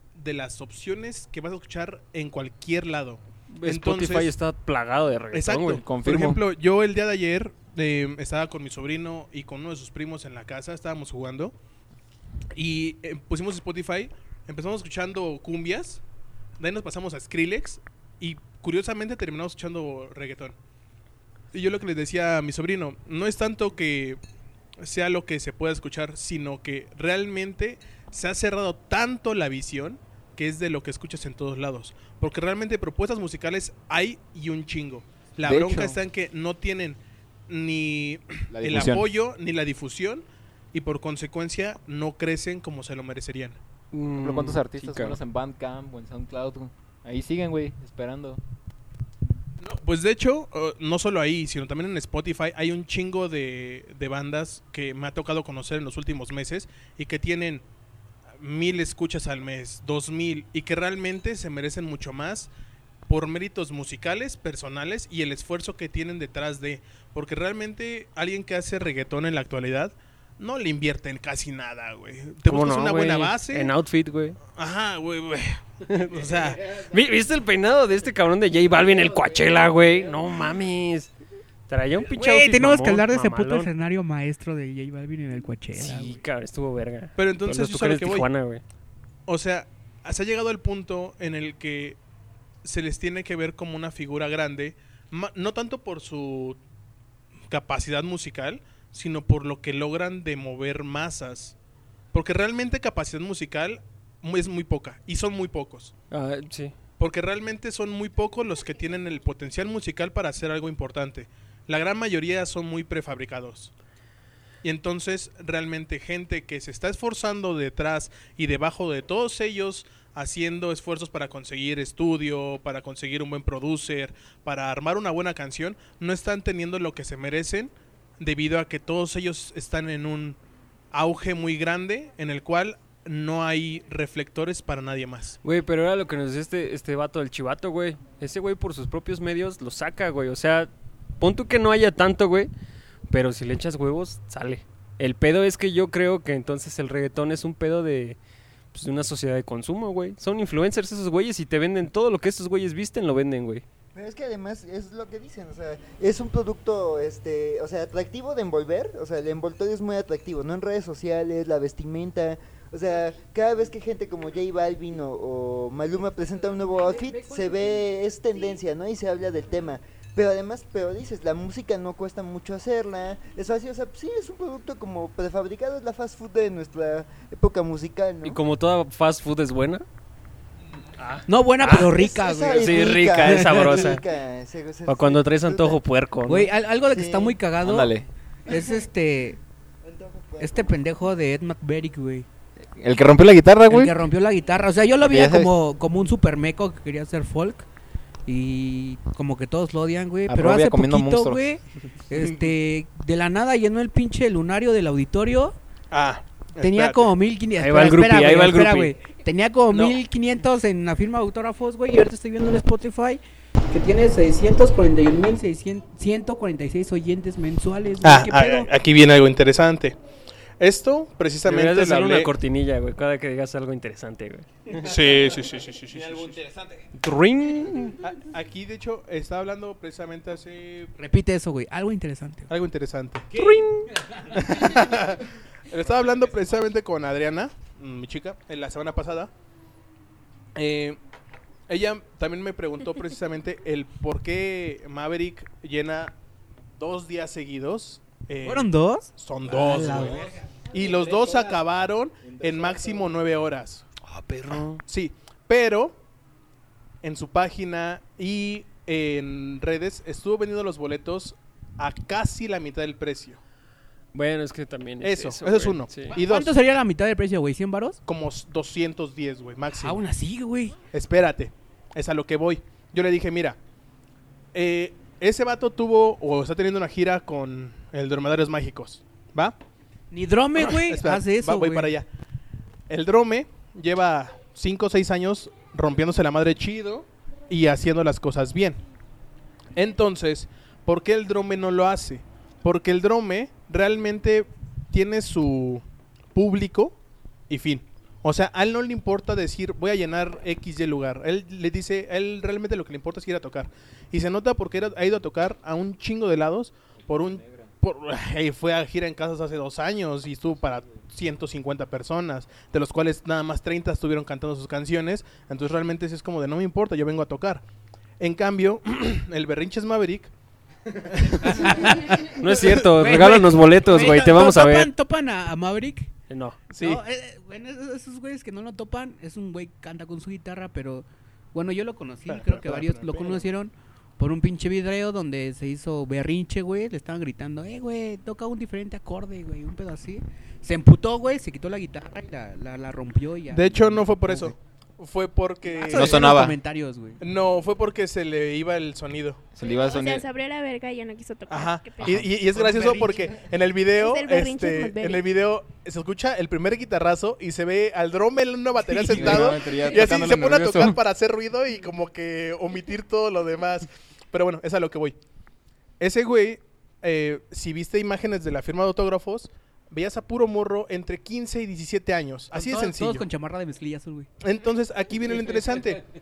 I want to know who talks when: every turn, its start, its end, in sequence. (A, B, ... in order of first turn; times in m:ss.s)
0:00.2-0:04.3 A
0:03.5-0:05.8 B
0:05.3-0:11.6 A
0:05.8-0:06.4 C
0:12.6-0:16.0 A
0:16.6-0:20.6 A
0:21.5-0:24.2 A
0:24.8-0:43.6 A
0:35.4-0:36.0 C
0:38.5-0:39.1 C
0:43.9-0:45.2 B
0:44.2-0:48.4 C
0:49.6-0:57.6 A
0:58.4-1:02.5 A
1:03.1-1:13.7 A
1:12.5-1:14.4 B
1:14.5-1:16.8 A
1:15.9-1:21.1 B
1:21.7-1:23.7 B
1:22.0-1:26.1 D
1:25.8-1:28.6 B
1:27.2-1:28.3 A
1:29.3-1:32.0 A
1:32.6-1:36.6 A
1:37.5-1:41.6 A
1:42.1-1:45.9 A
1:46.1-1:46.8 B
1:47.0-1:53.7 A
1:54.6-2:10.4 A
2:10.9-2:15.4 A
2:15.4-2:22.5 B
2:23.1-2:28.2 B
2:28.7-2:33.6 B
2:33.9-2:58.4 E
2:58.2-2:59.8 B
3:01.0-3:01.9 B
3:01.3-3:03.8 D
3:01.7-3:05.8 E
3:02.5-3:04.0 B
3:04.9-3:06.5 B
3:06.3-3:07.9 D
3:06.9-3:07.4 E
3:07.6-3:08.1 C
3:08.5-3:09.4 D
3:09.8-3:10.7 E
3:10.4-3:12.3 D
3:12.8-3:14.0 C
3:13.7-3:17.7 D
3:15.0-3:15.5 C
3:18.3-3:25.6 D
3:20.3-3:21.4 C
3:25.9-3:27.1 A
3:26.6-3:33.2 D
3:27.6-3:28.9 B
3:33.7-3:38.7 D
3:38.0-3:40.0 A
3:40.6-3:42.3 A
3:41.4-3:44.7 B
3:44.8-3:46.4 A
3:45.9-3:46.8 C
3:47.0-3:48.0 B
3:48.0-3:50.9 A
3:51.0-3:52.5 D
3:52.5-3:53.3 A
3:53.3-3:53.9 B
3:54.3-3:59.3 A
4:00.6-4:01.0 A
4:01.7-4:06.1 A
4:06.8-4:13.8 A
4:08.4-4:09.1 D
4:09.5-4:11.5 C
4:09.7-4:10.1 D
4:12.2-4:13.1 C
4:14.1-4:14.8 B
4:14.9-4:16.0 A
4:17.0-4:23.4 A
4:24.1-4:26.1 B
4:25.0-4:26.6 A
4:26.1-4:28.0 D
4:28.1-4:30.0 A
4:29.8-4:30.8 D
4:30.9-4:33.6 A
4:34.5-4:39.6 A
4:40.1-4:41.9 D
4:40.6-4:42.1 A
4:42.9-4:48.8 A
4:49.8-4:57.0 A
4:57.5-5:17.6 A
5:07.0-5:07.7 C
5:18.2-5:20.3 A
5:21.3-5:22.0 A
5:21.5-5:22.2 D
5:22.3-5:24.9 B
5:22.8-5:26.1 D
5:26.3-5:26.6 B
5:26.7-5:27.0 A
5:26.8-5:44.5 D
5:32.3-5:33.4 A
5:43.5-5:46.3 A
5:45.7-5:47.2 D
5:45.9-5:46.6 C
5:47.2-5:49.5 A
5:49.6-5:50.3 C
5:49.6-5:52.2 F
5:51.5-6:05.2 A
5:52.0-5:52.3 C
5:52.5-5:53.3 D
5:53.9-5:55.2 F
5:58.9-6:01.0 C
6:06.0-6:13.2 A
6:12.5-6:14.3 D
6:14.4-6:16.0 A